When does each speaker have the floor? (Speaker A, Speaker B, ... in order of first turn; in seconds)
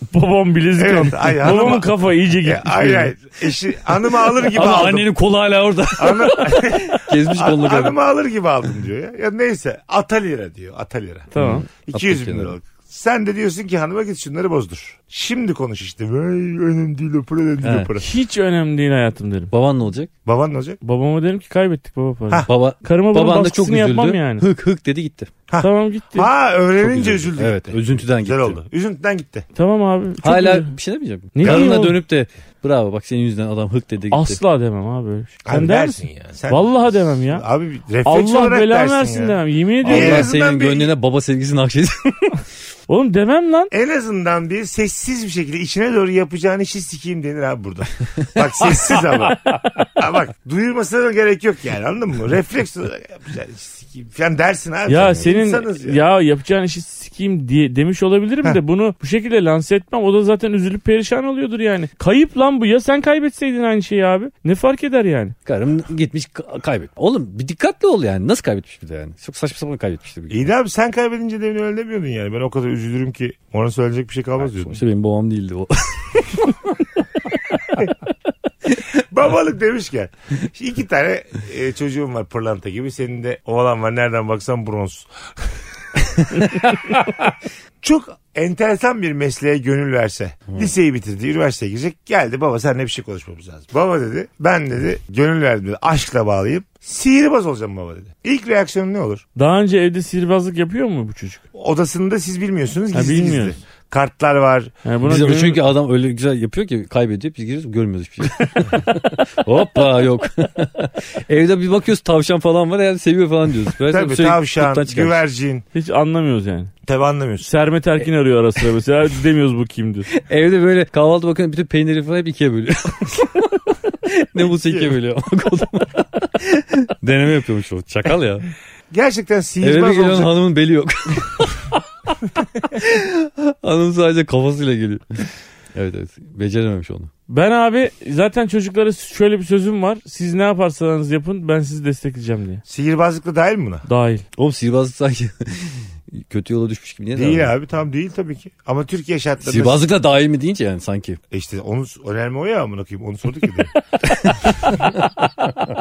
Speaker A: 0.1-3.1, 11.3-11.7, 18.0-19.5, 20.8-24.5, 25.6-26.3, 29.6-30.8, 31.4-32.0, 34.1-37.4, 38.0-40.3, 42.9-43.7, 54.9-65.3, 99.4-101.4, 102.9-103.6, 104.8-105.6, 115.8-116.7, 117.4-120.1, 137.3-142.6, 143.9-144.2
Speaker B: 0.8-5.1, 6.0-11.3, 11.8-18.1, 20.2-20.8, 25.5-29.5, 31.4-31.8, 35.5-40.9, 43.7-49.4, 50.0-56.0, 70.3-74.8, 78.9-85.5, 87.8-99.2, 101.5-104.7, 113.9-115.6, 116.9-117.5, 124.5-125.0, 128.9-130.3, 142.7-143.8, 147.2-149.9, 151.3-153.7
Speaker C: 4.4-8.0, 11.3-12.6, 17.6-17.9, 19.5-20.1, 22.5-25.3, 26.8-28.6, 30.2-34.4, 39.8-42.4, 65.5-70.5, 74.4-76.5, 105.1-115.2, 120.1-128.5, 129.6-131.8, 132.5-137.1, 144.4-147.5, 149.4-151.2, 154.0-155.5